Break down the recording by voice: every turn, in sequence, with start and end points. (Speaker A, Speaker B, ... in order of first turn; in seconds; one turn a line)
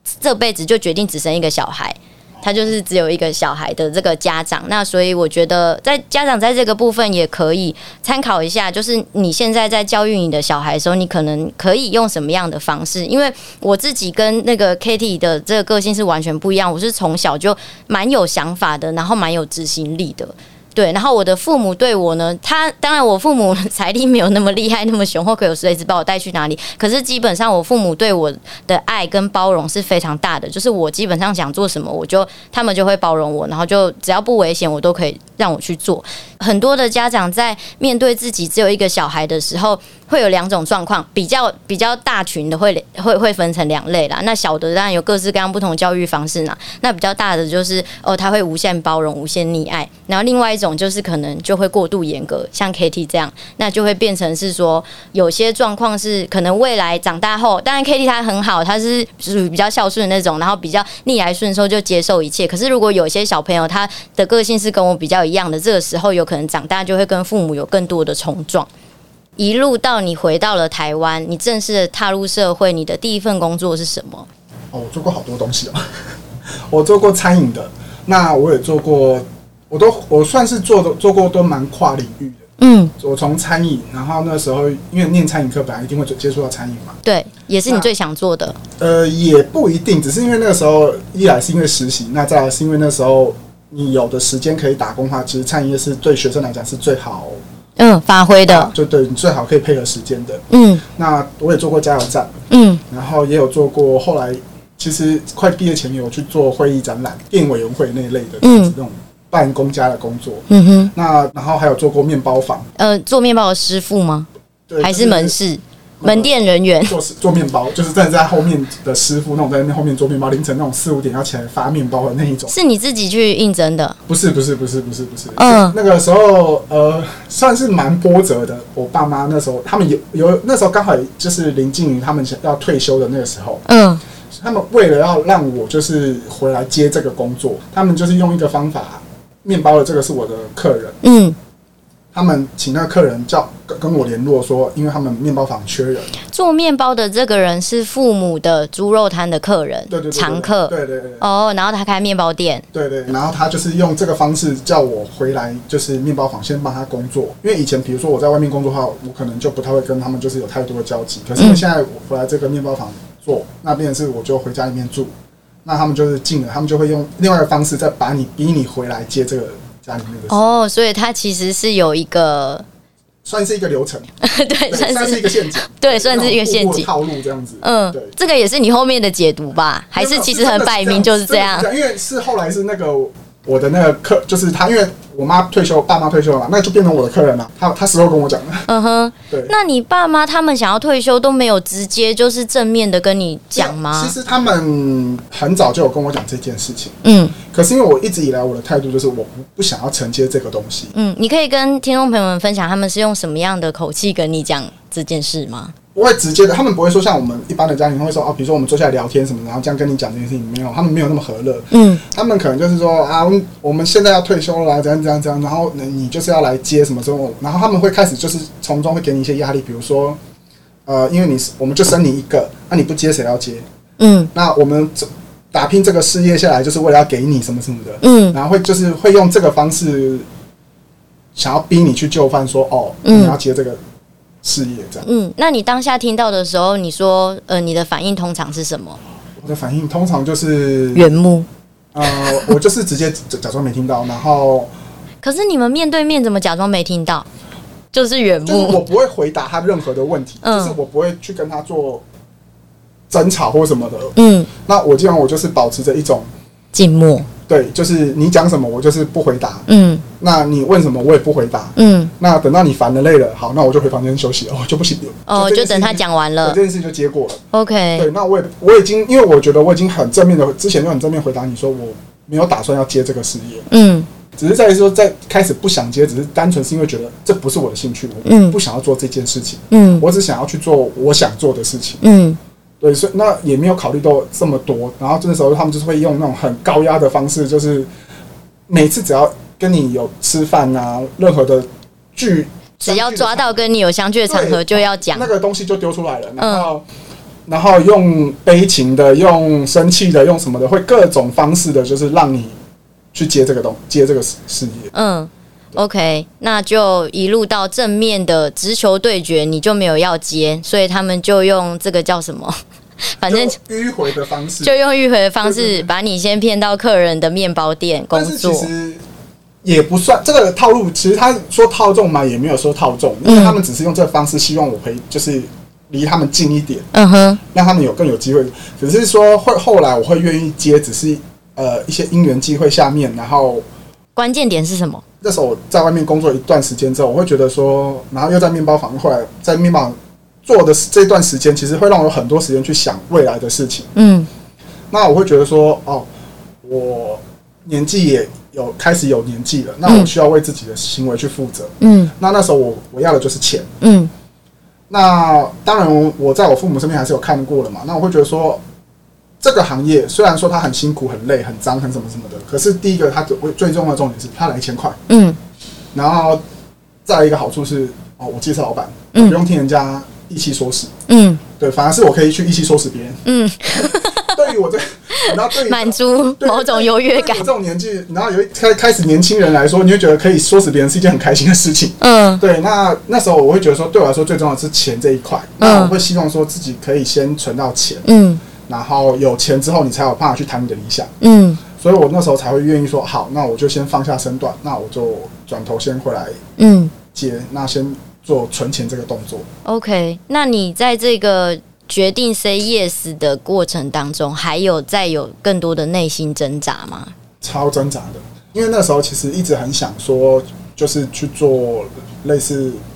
Speaker A: 0.2-68.7
Speaker B: 2.4-2.7
Speaker A: 69.4-74.3
Speaker B: 74.7-82.4
Speaker A: 82.6-82.9
Speaker B: 83.0-87.0
Speaker A: 87.0-88.6
Speaker B: 88.8-97.4
Speaker A: 97.8-98.7
Speaker B: 98.5-102.3
Speaker A: 100.5-100.8
Speaker A: 102.5-102.8
Speaker B: 102.9-112.7
Speaker A: 108.4-108.7
Speaker A: 110.5-110.9
Speaker A: 112.8-114.3
Speaker B: 114.7-115.3
Speaker A: 114.8-116.9
Speaker B: 116.0-116.3
Speaker B: 116.8-122.5
Speaker A: 122.5-124.0
Speaker B: 124.1-133.6
Speaker A: 125.3-125.8
Speaker A: 133.7-134.0
Speaker B: 134.3-141.0
Speaker A: 141.0-141.3
Speaker B: 142.1-146.1
Speaker A: 146.3-152.6
Speaker B: 149.9-151.2
Speaker B: 152.7-165.1
Speaker A: 161.4-161.6
Speaker B: 165.6-170.4
Speaker A: 170.3-172.6
Speaker B: 173.2-174.1
Speaker A: 174.2-176.9
Speaker B: 174.7-178.1
Speaker A: 177.6-181.7
Speaker B: 179.9-188.7
Speaker A: 188.7-194.1
Speaker B: 193.6-200.9
Speaker A: 197.0-197.3
Speaker A: 200.9-205.7
Speaker B: 205.9-220.2
Speaker A: 211.7-212.0
Speaker B: 220.8-223.7
Speaker A: 224.0-224.3
Speaker B: 224.3-230.3
Speaker A: 228.0-228.4
Speaker B: 231.3-233.8
Speaker A: 233.0-233.3
Speaker B: 234.4-235.1
Speaker A: 235.0-239.0
Speaker B: 239.4-241.1
Speaker A: 240.9-241.5
Speaker B: 241.9-244.7
Speaker A: 242.1-242.5
Speaker A: 245.2-247.3
Speaker A: 247.9-248.8
Speaker B: 248.4-252.0
Speaker A: 250.4-250.8
Speaker B: 253.1-256.3
Speaker A: 254.2-254.5
Speaker A: 256.7-257.3
Speaker B: 257.5-267.4
Speaker A: 259.7-260.0
Speaker A: 261.8-262.1
Speaker A: 265.3-266.6
Speaker A: 267.5-268.1
Speaker B: 267.9-273.7
Speaker A: 273.7-274.1
Speaker B: 274.4-282.0
Speaker A: 278.2-278.6
Speaker A: 279.7-280.0
Speaker A: 282.0-282.4
Speaker B: 282.8-287.9
Speaker B: 288.7-293.6
Speaker A: 292.8-295.3
Speaker B: 294.3-296.9
Speaker A: 296.4-296.7
Speaker B: 297.5-302.6
Speaker B: 303.1-304.9
Speaker A: 304.9-313.6
Speaker B: 313.2-314.7
Speaker A: 314.6-318.7
Speaker B: 315.4-315.9
Speaker B: 318.1-319.0
Speaker B: 319.6-326.9
Speaker A: 323.2-323.6
Speaker A: 326.9-327.4
Speaker B: 327.4-333.6
Speaker A: 334.1-335.0
Speaker B: 335.2-343.9
Speaker A: 343.9-344.3
Speaker B: 344.9-346.1
Speaker B: 346.6-353.7
Speaker A: 351.8-352.1
Speaker A: 353.8-354.1
Speaker B: 354.9-358.6
Speaker B: 359.4-365.0
Speaker A: 365.1-365.4
Speaker B: 365.9-366.4
Speaker B: 367.0-370.9
Speaker A: 371.1-371.4
Speaker B: 371.6-388.0
Speaker A: 373.2-374.5
Speaker A: 375.1-377.5
Speaker A: 382.0-382.4
Speaker A: 385.6-386.0
Speaker A: 388.0-388.4
Speaker B: 388.6-391.1
Speaker A: 391.2-391.6
Speaker B: 391.7-396.4
Speaker A: 396.6-396.9
Speaker B: 397.1-399.5
Speaker A: 399.6-407.1
Speaker B: 407.4-412.8